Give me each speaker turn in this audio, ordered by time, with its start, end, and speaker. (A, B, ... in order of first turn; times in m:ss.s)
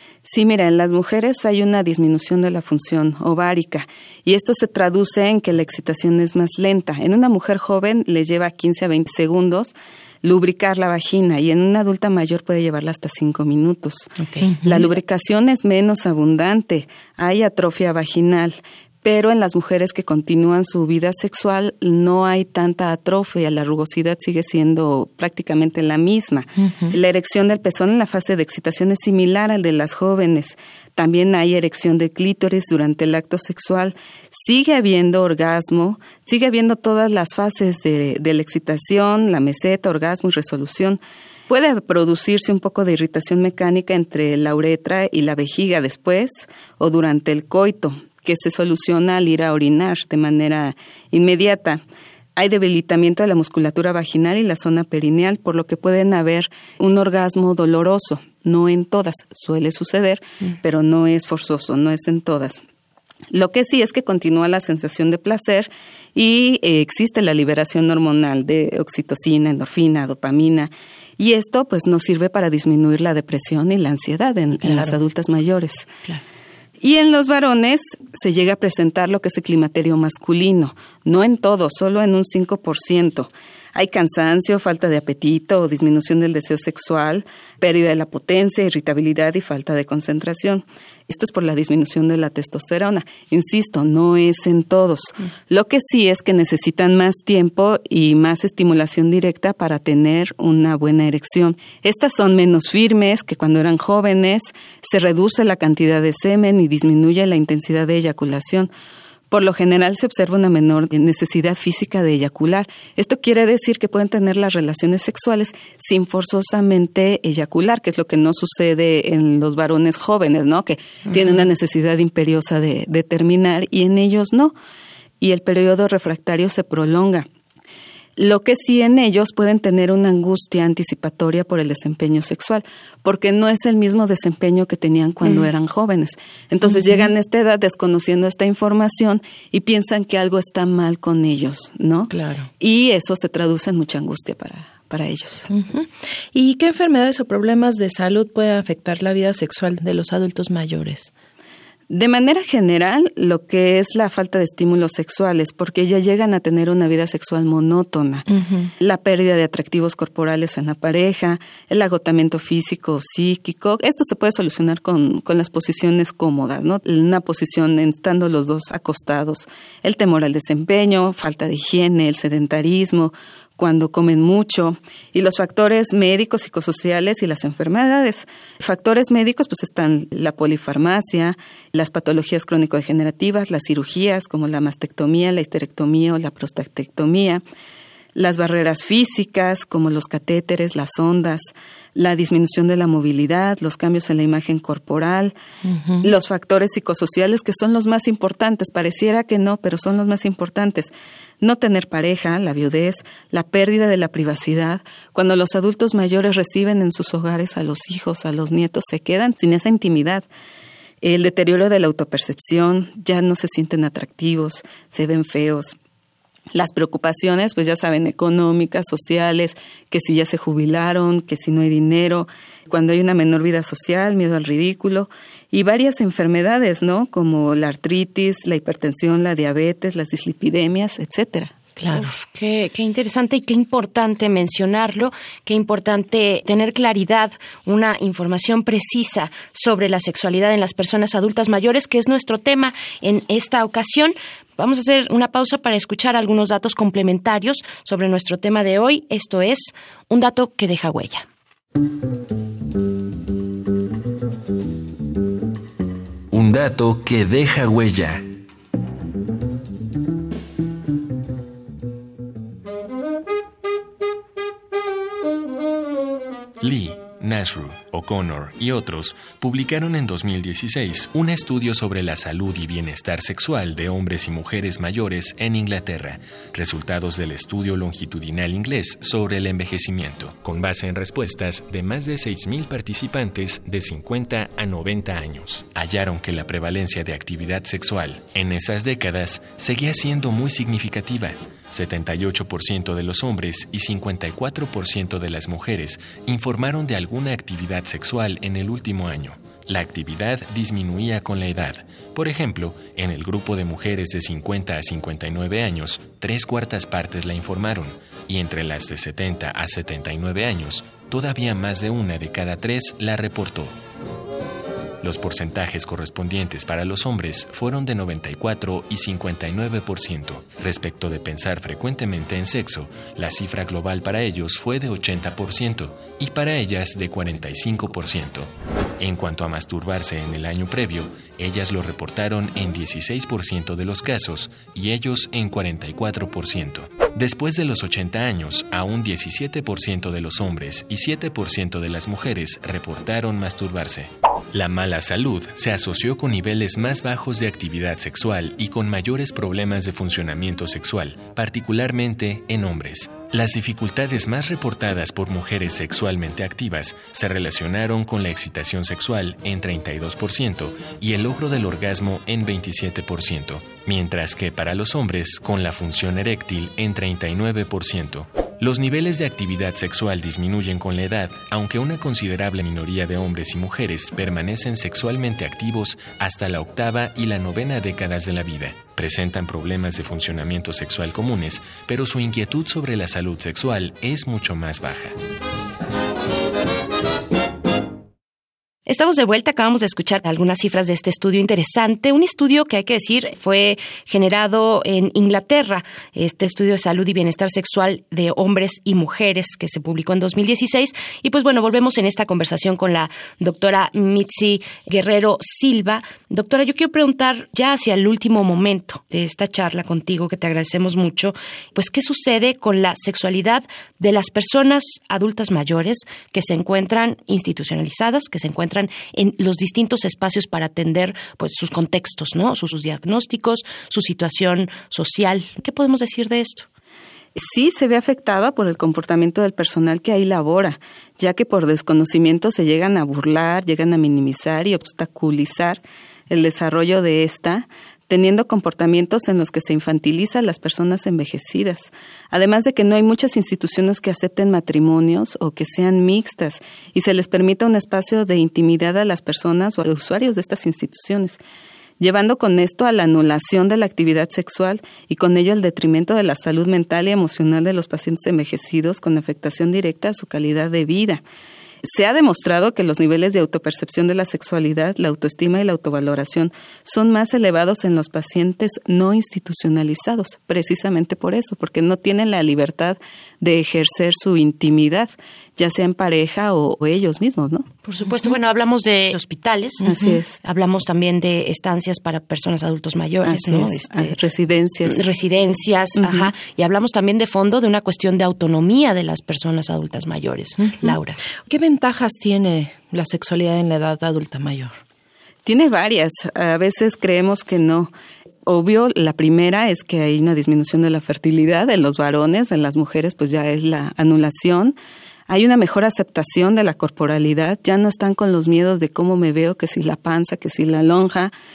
0:00.2-0:14.1 A
0:14.2-0:14.5 B
0:14.4-0:14.8 C
0:14.6-0:51.8 A
0:26.6-0:26.9 C
0:52.4-1:02.6 A
1:03.3-1:15.9 A
1:16.8-1:48.7 A
1:49.3-2:04.5 A
2:05.2-2:07.2 A
2:08.2-2:25.5 A
2:22.1-2:22.5 C
2:25.5-2:31.1 C
2:31.9-2:38.2 A
2:38.3-2:38.7 C
2:38.8-3:07.4 A
3:08.1-3:15.3 A
3:15.6-3:16.1 C
3:16.0-3:30.3 A
3:31.0-3:35.8 A
3:36.5-3:51.5 A
3:51.8-4:11.2 B
4:16.3-4:18.2 D
4:26.6-5:13.8 D
5:15.0-6:25.1 D
6:28.9-7:06.7 B
7:07.4-7:31.4 A
7:32.0-7:41.2 A
7:41.8-7:57.7 A
7:57.8-8:04.2 B
7:59.8-8:00.4 A
8:03.2-8:05.1 A
8:04.8-8:11.2 B
8:06.0-8:06.3 A
8:10.6-8:10.9 C
8:11.5-8:14.8 C
8:15.4-8:17.9 A
8:18.4-8:24.8 A
8:25.3-8:31.3 A